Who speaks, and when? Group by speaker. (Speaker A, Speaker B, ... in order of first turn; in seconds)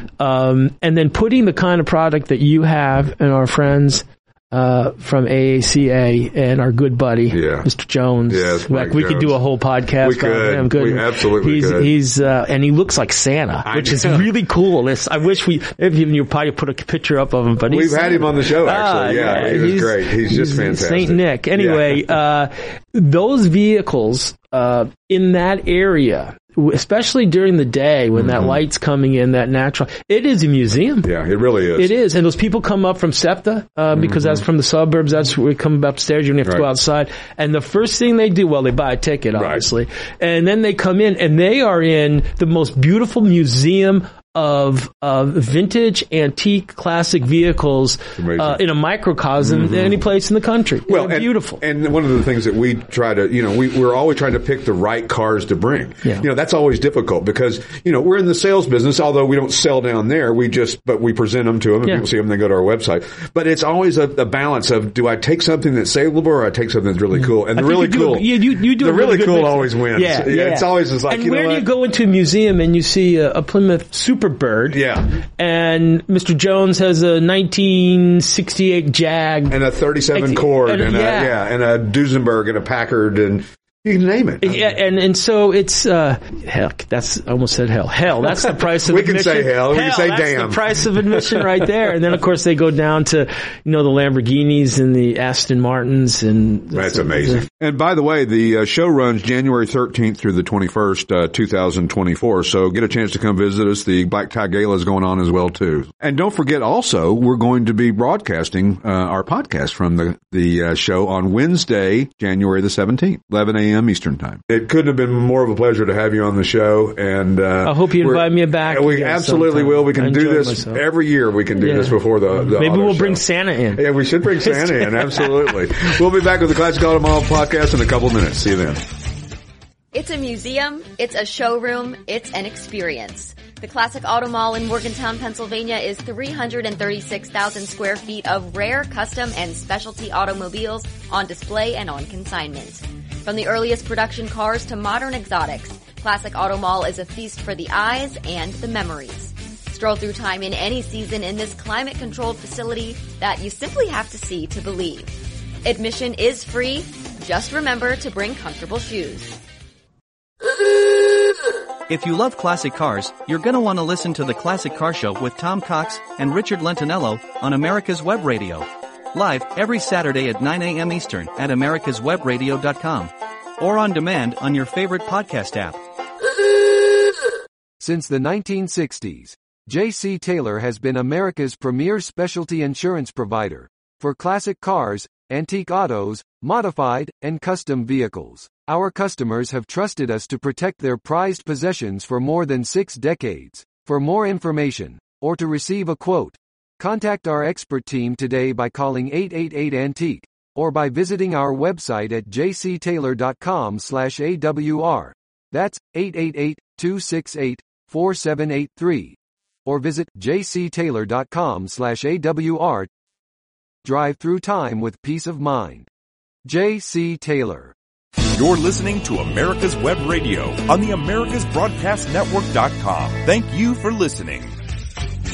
Speaker A: 0.2-31.1, 31.8-51.6, 67.5-74.8, 75.4-79.6, 80.1-81.3, 84.4-97.4, 117.6-120.8, 121.6-123.8, 124.4-125.5
Speaker B: 7.3-7.7, 8.3-9.4, 10.0-11.9, 13.7-14.3, 17.7-22.0, 28.2-28.6, 31.0-31.9, 34.0-34.4, 39.4-39.6, 48.2-48.6, 49.4-50.0, 50.9-71.7, 74.7-75.1, 79.5-84.8, 88.8-91.2, 96.7-123.2, 123.8-128.8
Speaker C: 129.9-155.1, 155.7-159.4
Speaker D: 161.9-175.8
Speaker E: 177.8-212.9, 213.8-215.9, 216.4-217.7
Speaker F: 218.3-224.5